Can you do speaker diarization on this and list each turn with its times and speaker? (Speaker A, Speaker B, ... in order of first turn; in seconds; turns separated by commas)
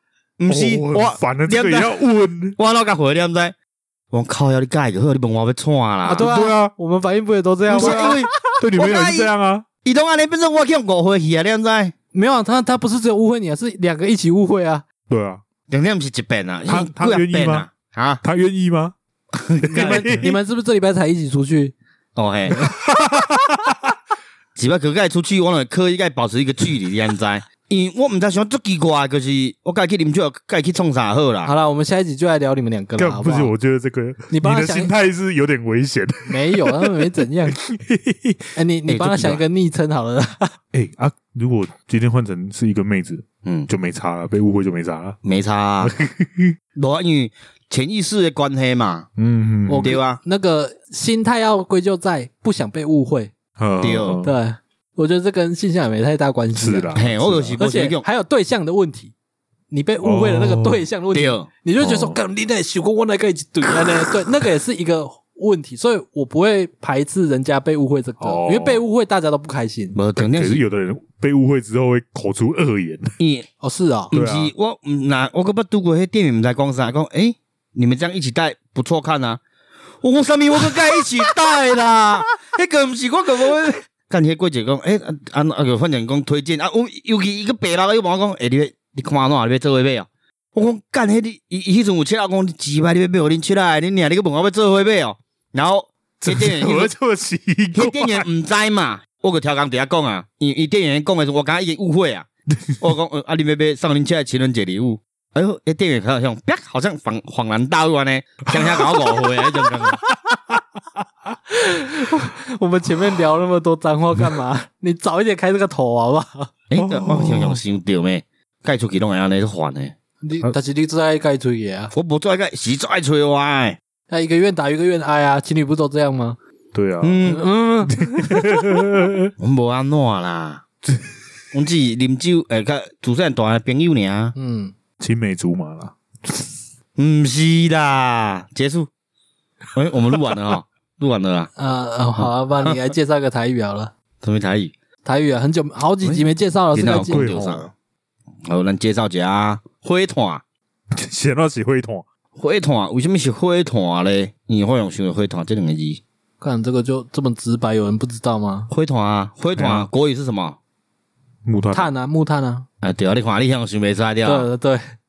Speaker A: 0.4-2.0, Speaker B: 0.5-2.6, Speaker A: 2.5-3.5, Speaker A: 4.1-6.3, Speaker C: 6.0-8.4, Speaker B: 6.2-6.7, Speaker A: 7.7-9.3, Speaker B: 7.7-9.7, Speaker A: 9.8-11.9, Speaker C: 12.1-14.8, Speaker B: 15.1-15.4, Speaker A: 15.7-18.2, Speaker B: 16.7-17.7, Speaker B: 18.2-18.9, Speaker A: 19.3-20.2, Speaker B: 19.6-20.3, Speaker C: 19.7-21.7, Speaker A: 22.1-22.7, Speaker B: 22.6-23.8, Speaker A: 24.6-31.5, Speaker C: 31.4-33.5, Speaker B: 33.0-37.0, Speaker C: 34.3-34.9, Speaker C: 36.3-37.6, Speaker B: 37.5-38.5, Speaker C: 38.5-40.5, Speaker A: 38.9-39.4, Speaker B: 40.7-45.2, Speaker A: 43.4-43.7, Speaker A: 45.2-45.9, Speaker B: 45.8-46.5, Speaker A: 46.8-49.1, Speaker B: 49.2-50.0, Speaker C: 49.7-53.3, Speaker A: 49.8-50.2, Speaker B: 53.6-54.3, Speaker A: 53.8-54.2, Speaker C: 54.2-57.0, Speaker B: 56.5-57.6, Speaker A: 57.0-58.0, Speaker C: 57.6-59.1, Speaker C: 59.7-70.0, Speaker B: 60.0-60.8, Speaker A: 61.1-61.5, Speaker B: 61.8-62.2, Speaker B: 68.2-68.8, Speaker A: 70.0-70.6, Speaker B: 70.1-73.1, Speaker A: 73.2-73.5, Speaker C: 73.6-74.1, Speaker A: 74.1-79.4, Speaker B: 74.1-74.5, Speaker A: 80.0-96.9, Speaker B: 96.2-98.3, Speaker A: 97.7-102.3, Speaker A: 102.8-110.0, Speaker B: 108.5-109.0, Speaker C: 111.5-116.5, Speaker A: 116.7-119.9, Speaker B: 116.8-117.6, Speaker C: 120.2-121.9, Speaker A: 121.9-123.8, Speaker C: 124.1-126.4, Speaker B: 126.7-127.3, Speaker A: 127.0-127.4, Speaker C: 127.3-128.8, Speaker B: 127.9-129.3, Speaker A: 129.4-130.6, Speaker A: 131.5-134.3, Speaker C: 134.3-134.7, Speaker B: 135.0-136.5, Speaker A: 137.0-138.9, Speaker A: 139.7-141.5, Speaker C: 141.6-143.9, Speaker A: 144.2-144.7, Speaker C: 145.1-147.4, Speaker A: 146.0-147.7, Speaker B: 146.8-147.7, Speaker A: 148.4-150.4, Speaker B: 150.9-152.1, Speaker A: 152.4-156.0, Speaker C: 156.4-158.7, Speaker A: 158.7-160.6, Speaker B: 159.6-159.9, Speaker B: 161.4-161.9, Speaker C: 161.7-162.7, Speaker A: 162.8-164.5, Speaker C: 164.2-164.8